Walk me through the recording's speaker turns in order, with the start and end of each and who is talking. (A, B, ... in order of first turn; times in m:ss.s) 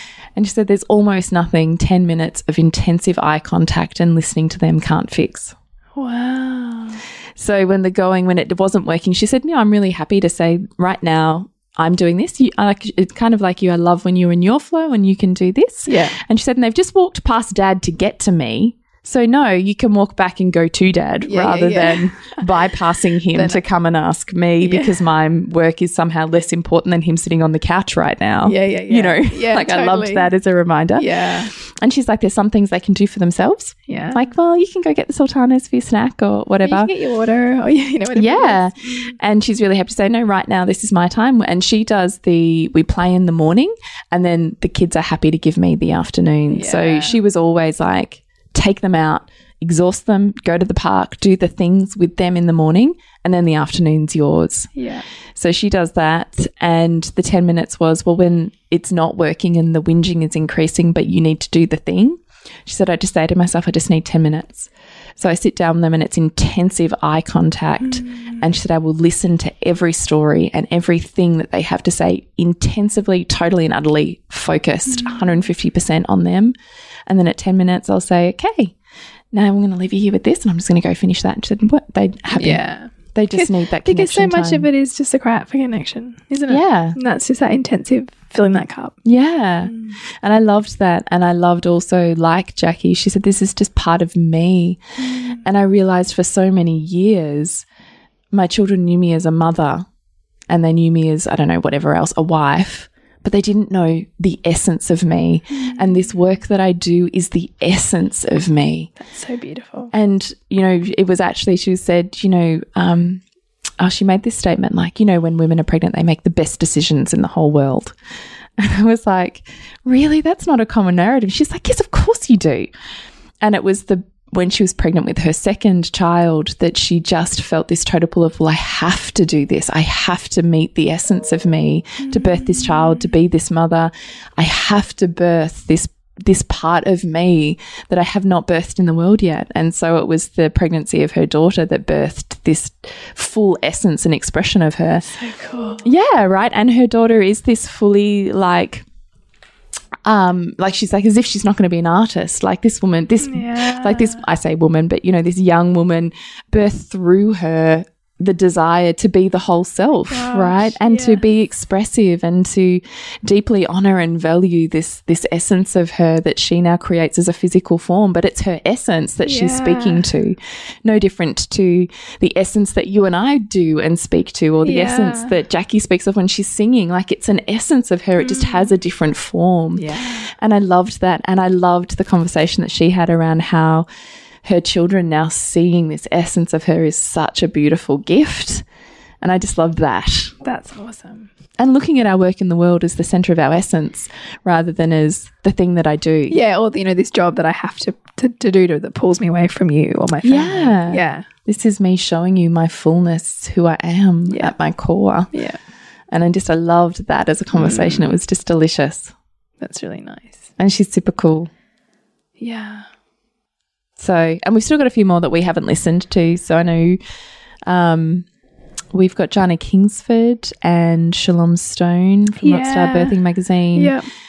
0:00.3-0:05.5 A
0:06.0-0:07.0 B
0:07.4-0:36.9 A
0:15.9-0:16.2 B
0:21.3-0:22.4 B
0:23.3-0:23.6 B
0:24.6-0:24.9 B
0:28.4-0:30.3 B
0:31.0-0:31.5 B
0:33.9-0:34.2 B
0:36.6-0:39.1 B
0:38.1-0:54.7 A
0:46.5-0:47.2 B
0:54.7-0:55.0 B
0:55.4-1:16.5 A
1:07.8-1:08.4 B
1:14.9-1:15.4 B
1:17.1-1:18.7 A
1:19.3-1:24.7 A
1:22.3-1:29.0 B
1:26.5-1:27.0 A
1:29.0-1:34.8 A
1:29.6-1:30.0 B
1:35.0-1:35.4 B
1:35.4-1:37.6 A
1:38.3-1:39.9 A
1:40.5-1:48.9 A
1:45.5-1:46.0 B
1:49.0-1:49.9 B
1:49.9-1:53.2 A
1:53.8-1:57.9 A
1:58.6-2:02.7 A
2:03.4-2:25.1 A
2:12.0-2:12.6 B
2:25.0-2:25.9 B
2:25.8-2:28.8 A
2:30.0-3:03.9 A
2:33.2-2:34.2 B
2:40.1-2:41.2 B
2:49.2-2:50.0 B
2:54.6-2:55.3 B
2:58.2-2:58.7 B
2:59.8-3:00.3 B
3:04.4-3:08.6 A
3:09.2-3:10.3 A
3:10.4-3:11.3 B
3:11.6-3:16.4 A
3:16.3-3:21.3 B
3:20.2-3:25.3 A
3:24.3-3:24.5 B
3:25.3-3:25.6 B
3:26.1-3:29.1 A
3:27.5-3:28.1 B
3:29.6-3:30.4 B
3:30.6-3:31.5 A
3:32.4-3:32.9 B
3:34.0-3:37.0 A
3:37.7-3:38.2 A
3:38.9-3:43.9 A
3:42.4-3:43.2 B
3:43.7-3:44.0 B